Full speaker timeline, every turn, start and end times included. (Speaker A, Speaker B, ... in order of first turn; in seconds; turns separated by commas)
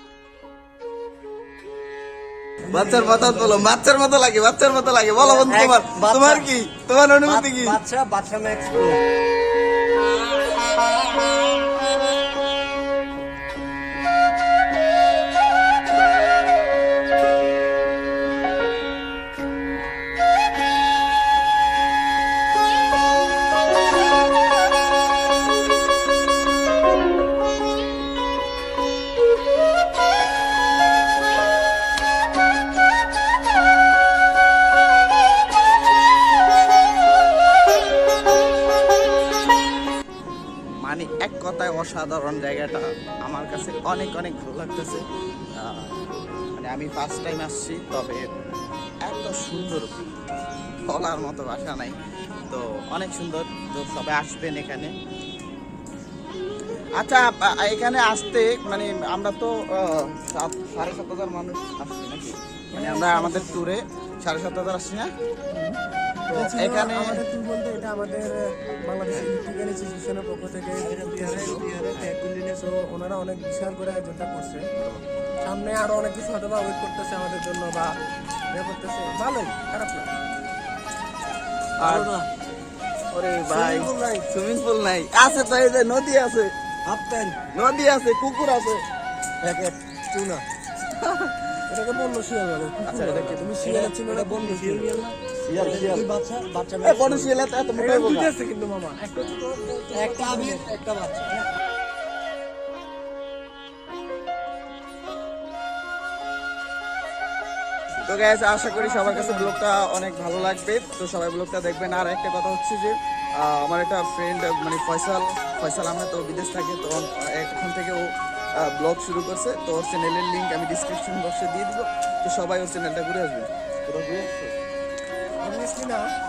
Speaker A: 2.7-7.8, Speaker B: 2.7-3.6, Speaker B: 5.2-6.5, Speaker B: 7.2-9.0, Speaker A: 40.8-45.0, Speaker A: 45.5-46.0, Speaker A: 46.5-48.3, Speaker A: 49.0-49.9, Speaker A: 50.9-52.0, Speaker A: 52.5-54.9, Speaker A: 57.0-65.7, Speaker C: 62.7-63.6, Speaker A: 66.3-67.2, Speaker C: 66.3-74.7, Speaker B: 70.8-72.3, Speaker C: 75.4-78.0, Speaker C: 78.5-80.1, Speaker A: 81.8-82.1, Speaker B: 81.8-82.3, Speaker A: 83.1-86.5, Speaker B: 83.5-84.2, Speaker B: 86.8-87.4, Speaker A: 87.5-88.8, Speaker B: 89.4-90.4, Speaker A: 91.0-91.3, Speaker C: 91.7-95.0, Speaker A: 92.8-93.5, Speaker B: 93.6-97.3, Speaker A: 95.5-96.0, Speaker A: 96.8-98.3, Speaker C: 97.7-100.7, Speaker B: 99.9-101.4, Speaker A: 108.0-118.1, Speaker C: 108.8-109.6, Speaker A: 118.7-124.3, Speaker C: 125.4-126.1